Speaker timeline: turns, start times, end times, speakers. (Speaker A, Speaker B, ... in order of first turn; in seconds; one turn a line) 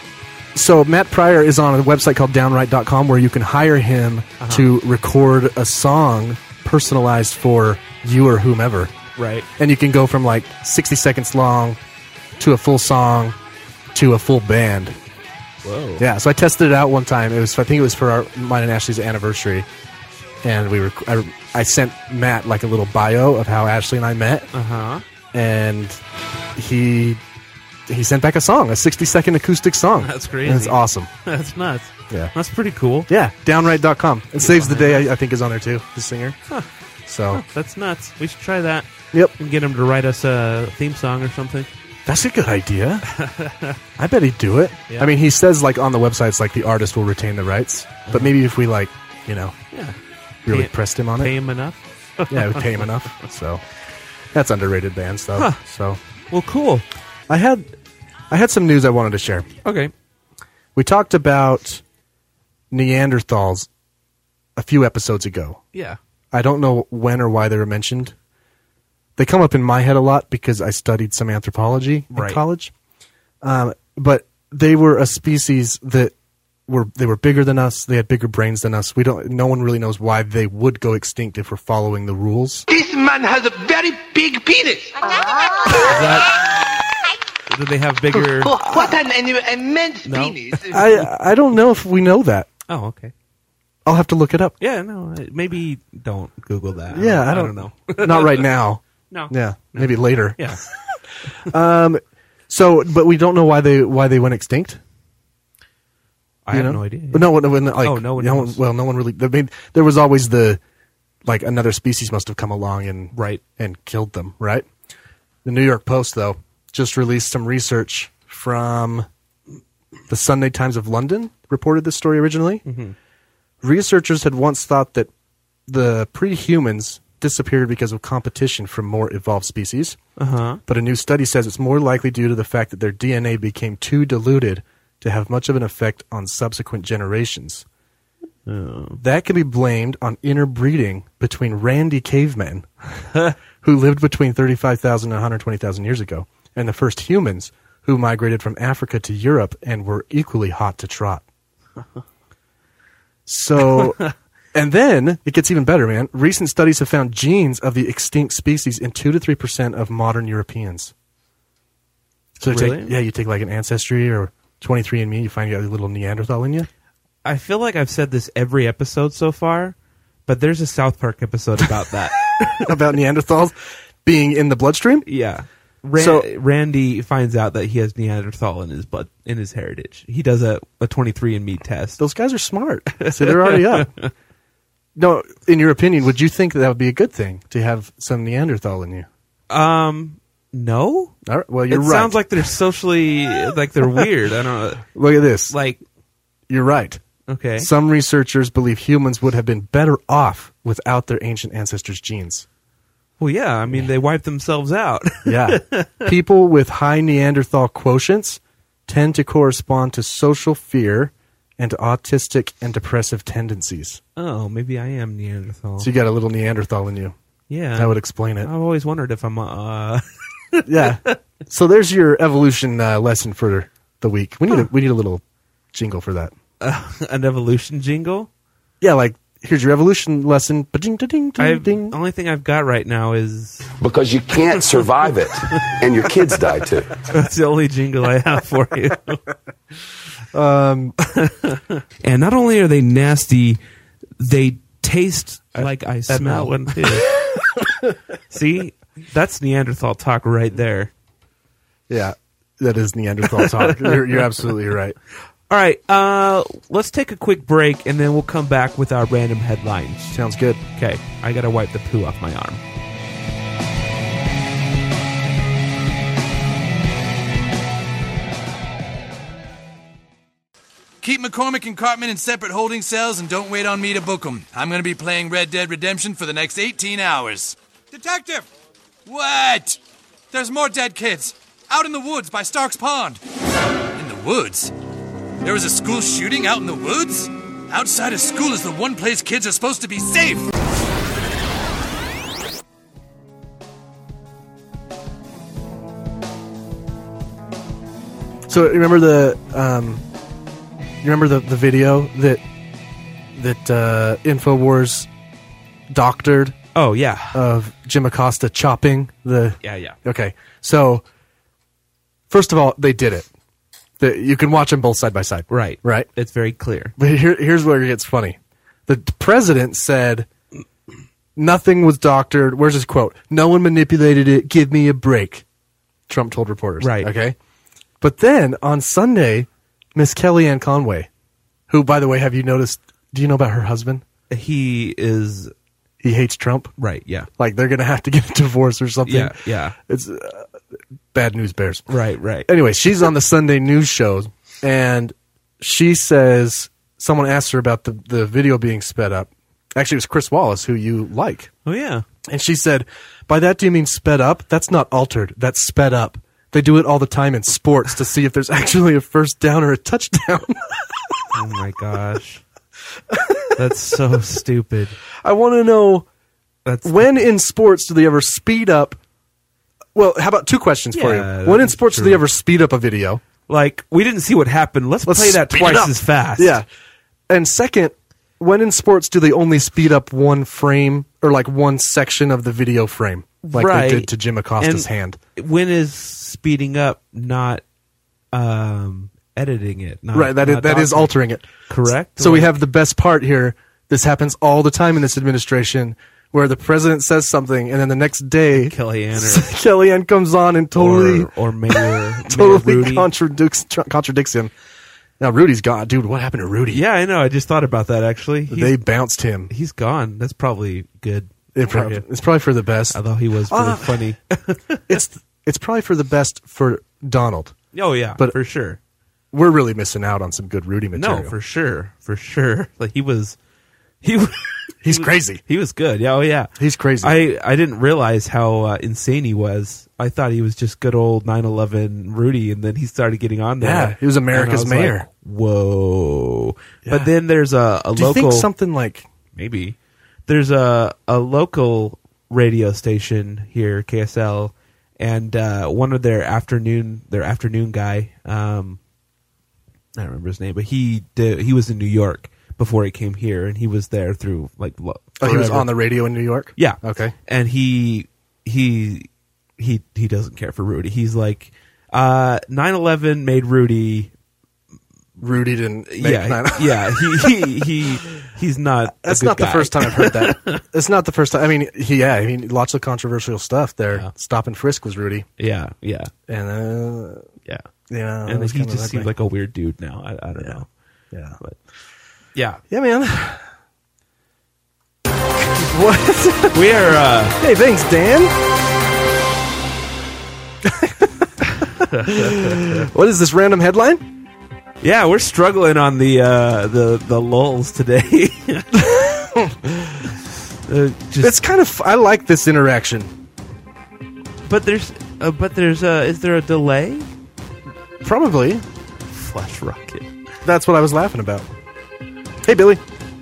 Speaker A: 0.5-8.9
Speaker B: 4.4-4.7
Speaker B: 9.2-9.5
Speaker A: 9.6-11.8
Speaker A: 12.4-13.4
Speaker A: 13.9-15.0
Speaker B: 15.6-16.1
Speaker A: 16.0-19.7
Speaker A: 20.4-24.5
Speaker B: 24.5-25.0
Speaker A: 25.3-26.0
Speaker A: 26.6-27.2
Speaker A: 27.9-31.1
Speaker B: 30.0-33.1
Speaker A: 33.1-36.4
Speaker B: 34.4-35.1
Speaker A: 37.1-37.4
Speaker B: 37.3-41.7
Speaker A: 42.1-43.1
Speaker B: 43.1-43.8
Speaker A: 44.0-49.6
Speaker B: 48.1-48.3
Speaker A: 50.5-51.3
Speaker B: 50.5-53.1
Speaker A: 52.3-53.6
Speaker A: 54.3-56.0
Speaker B: 55.4-55.6
Speaker B: 56.3-56.9
Speaker A: 57.3-57.7
Speaker A: 58.3-59.5
Speaker B: 59.6-59.9
Speaker A: 60.8-61.8
Speaker A: 62.7-63.7
Speaker A: 64.6-65.6
Speaker A: 66.3-68.2
Speaker A: 69.2-72.7
Speaker B: 72.1-72.4
Speaker A: 73.4-76.1
Speaker A: 76.7-82.7
Speaker C: 82.7-86.7
Speaker B: 85.8-86.4
Speaker B: 87.5-88.5
Speaker C: 88.1-90.8
Speaker A: 88.6-89.0
Speaker B: 90.0-90.9
Speaker A: 90.7-92.5
Speaker B: 92.7-93.1
Speaker A: 93.8-94.5
Speaker B: 94.6-98.4
Speaker A: 96.9-100.5
Speaker B: 99.1-100.7
Speaker A: 101.4-104.8
Speaker B: 106.5-108.6
Speaker A: 106.5-110.6
Speaker A: 111.3-114.7
Speaker B: 113.1-113.4
Speaker A: 115.5-119.1
Speaker A: 120.1-122.6
Speaker B: 122.7-123.0
Speaker A: 123.6-125.1
Speaker A: 125.7-130.0
Speaker B: 130.2-130.6
Speaker A: 130.7-137.7
Speaker B: 138.5-139.0
Speaker A: 139.0-142.7
Speaker A: 143.6-151.2
Speaker A: 153.3-154.0
Speaker B: 153.8-154.1
Speaker A: 154.5-160.9
Speaker A: 162.4-166.7
Speaker B: 162.5-163.0
Speaker B: 167.2-169.8
Speaker B: 170.3-172.7
Speaker A: 172.6-175.1
Speaker B: 175.1-182.0
Speaker A: 176.0-176.3
Speaker A: 182.0-183.9
Speaker B: 183.0-184.1
Speaker A: 185.0-189.1
Speaker B: 189.5-191.2
Speaker A: 191.3-192.3
Speaker B: 191.7-194.8
Speaker A: 194.9-195.6
Speaker B: 195.5-195.8
Speaker A: 196.5-197.0
Speaker B: 197.3-197.7
Speaker A: 197.6-202.5
Speaker B: 203.2-206.1
Speaker A: 205.2-214.0
Speaker B: 214.2-215.9
Speaker A: 215.8-217.2
Speaker B: 217.5-221.2
Speaker A: 217.8-218.5
Speaker A: 220.7-226.3
Speaker B: 226.6-228.3
Speaker A: 228.8-231.9
Speaker B: 231.4-233.7
Speaker D: 233.8-236.9
Speaker B: 237.1-239.2
Speaker A: 240.3-241.0
Speaker B: 241.1-243.6
Speaker B: 244.2-247.1
Speaker A: 245.6-247.9
Speaker B: 248.3-250.9
Speaker A: 251.9-255.0
Speaker B: 253.3-254.2
Speaker B: 255.5-260.1
Speaker A: 260.1-260.6
Speaker B: 260.8-262.6
Speaker E: 271.0-278.5
Speaker E: 279.1-279.8
Speaker E: 280.3-283.2
Speaker E: 283.9-284.7
Speaker E: 285.4-290.5
Speaker A: 298.5-300.0
Speaker A: 301.0-302.4
Speaker A: 303.3-305.1
Speaker A: 305.9-306.6
Speaker B: 306.8-307.4
Speaker A: 307.3-311.1
Speaker B: 309.6-310.0
Speaker A: 312.3-313.3
Speaker A: 314.0-316.1
Speaker B: 315.5-316.9
Speaker A: 317.0-320.3
Speaker A: 321.4-325.4
Speaker A: 326.1-327.4
Speaker B: 326.8-327.1
Speaker A: 328.0-331.1
Speaker A: 331.7-334.0
Speaker B: 334.3-335.5
Speaker A: 336.0-336.7
Speaker B: 336.8-337.3
Speaker A: 337.4-340.5
Speaker B: 339.1-339.8
Speaker A: 341.1-341.9
Speaker B: 341.9-342.5
Speaker A: 342.5-351.5
Speaker B: 351.7-352.1
Speaker A: 352.3-361.2
Speaker B: 361.3-362.4
Speaker A: 363.1-363.6
Speaker B: 363.6-365.0
Speaker A: 365.2-366.1
Speaker B: 366.6-367.2
Speaker A: 366.8-369.0
Speaker A: 369.9-373.2
Speaker B: 370.9-372.2
Speaker B: 373.5-376.6
Speaker A: 375.1-376.7
Speaker A: 377.3-385.2
Speaker B: 383.4-387.6
Speaker B: 388.3-391.1
Speaker A: 390.1-391.5
Speaker B: 391.7-392.6
Speaker A: 392.2-404.5
Speaker B: 398.5-399.5
Speaker B: 400.8-403.1
Speaker A: 405.2-406.8
Speaker B: 406.7-408.8
Speaker A: 408.5-409.5
Speaker B: 409.5-412.1
Speaker A: 411.6-414.0
Speaker B: 412.9-414.9
Speaker A: 414.9-417.5
Speaker B: 417.7-418.8
Speaker A: 419.3-421.4
Speaker B: 420.9-423.4
Speaker B: 424.0-426.5
Speaker A: 424.8-425.4
Speaker A: 426.6-427.2
Speaker B: 427.0-438.5
Speaker A: 433.6-435.1
Speaker A: 436.9-437.1
Speaker A: 437.9-439.1
Speaker B: 439.4-439.8
Speaker B: 440.3-448.8
Speaker B: 450.0-455.7
Speaker A: 455.2-457.1
Speaker B: 456.6-464.1
Speaker A: 465.2-467.9
Speaker B: 465.9-470.6
Speaker A: 468.9-475.3
Speaker B: 475.4-476.1
Speaker A: 476.3-477.3
Speaker A: 477.9-479.1
Speaker B: 478.3-480.7
Speaker A: 481.1-481.4
Speaker B: 482.4-482.6
Speaker A: 482.7-483.5
Speaker A: 485.6-486.6
Speaker B: 486.5-487.4
Speaker A: 487.4-488.4
Speaker A: 490.6-494.0
Speaker B: 491.6-492.9
Speaker B: 494.8-499.4
Speaker A: 499.4-499.8
Speaker B: 500.7-501.4
Speaker A: 501.2-503.1
Speaker B: 504.5-507.1
Speaker A: 508.0-508.6
Speaker B: 509.1-510.1
Speaker A: 510.4-511.5
Speaker A: 512.4-512.8